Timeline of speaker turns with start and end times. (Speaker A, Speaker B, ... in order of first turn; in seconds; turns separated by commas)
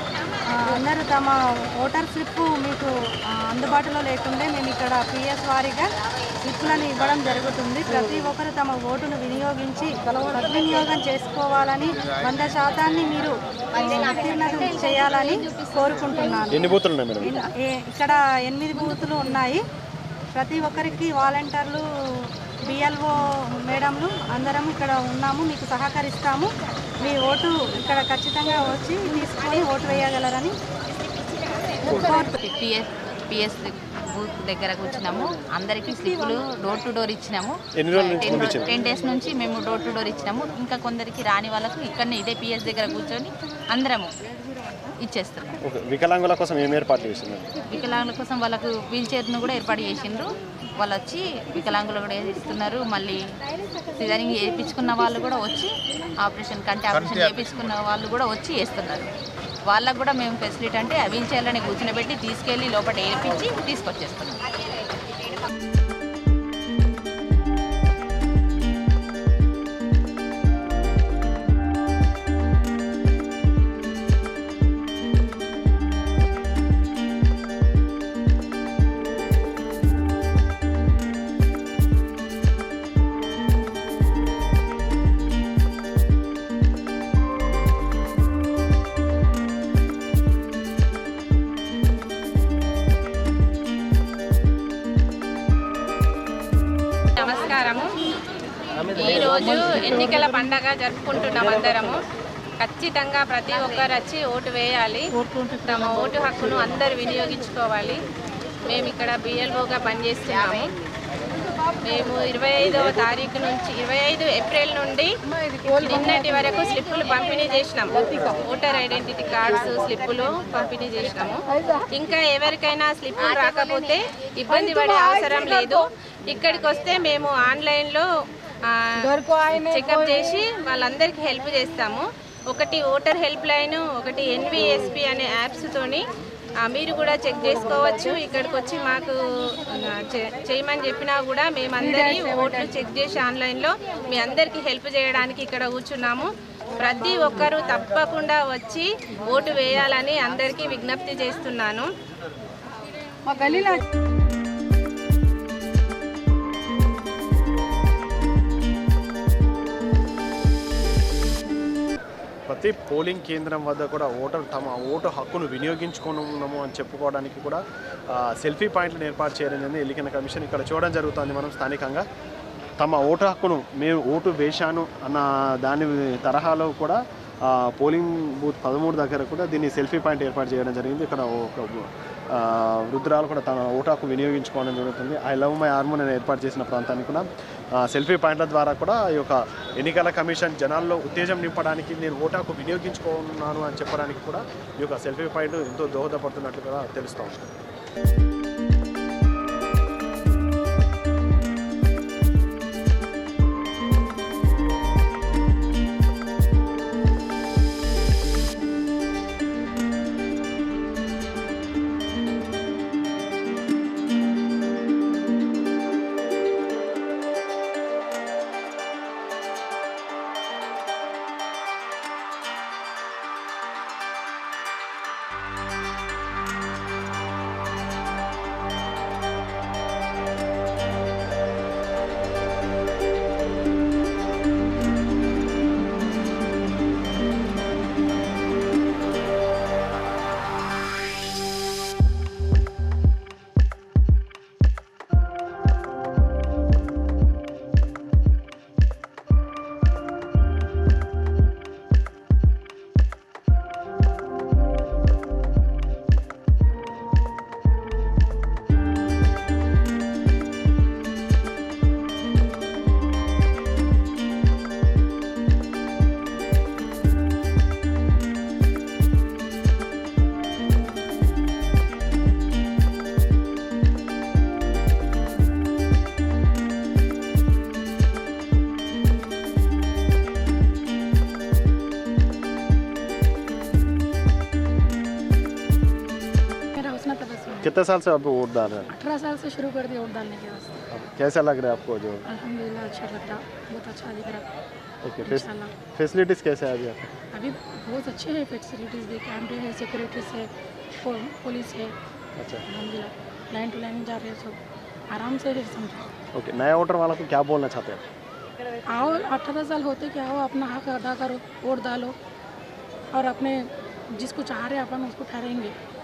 Speaker A: 0.5-5.9, Speaker A: 6.4-16.7, Speaker B: 16.5-17.4, Speaker A: 17.2-19.6, Speaker A: 20.3-21.8, Speaker A: 22.7-26.5, Speaker A: 27.0-30.5, Speaker A: 31.9-32.3, Speaker C: 32.4-44.1, Speaker B: 37.8-38.7, Speaker C: 45.0-45.5, Speaker B: 45.6-47.5, Speaker C: 47.7-50.3, Speaker C: 50.8-53.2, Speaker C: 54.0-55.7, Speaker C: 56.2-59.1, Speaker C: 59.7-64.4, Speaker D: 97.2-98.0, Speaker D: 98.9-102.0, Speaker D: 102.6-108.0, Speaker D: 108.7-110.7, Speaker D: 111.8-115.1, Speaker D: 115.8-128.0, Speaker D: 128.7-136.0, Speaker D: 136.6-151.9, Speaker B: 162.5-172.0, Speaker B: 172.8-187.2, Speaker B: 187.8-197.5, Speaker E: 286.8-287.7, Speaker B: 287.6-288.9, Speaker E: 288.9-290.8, Speaker B: 290.9-292.2, Speaker E: 292.3-294.4, Speaker B: 295.0-297.1, Speaker E: 295.2-295.7, Speaker E: 297.3-300.5, Speaker E: 301.0-301.9, Speaker B: 302.4-302.6, Speaker E: 302.7-304.6, Speaker E: 305.1-306.1, Speaker B: 306.4-308.0, Speaker E: 308.9-312.1, Speaker E: 313.1-315.7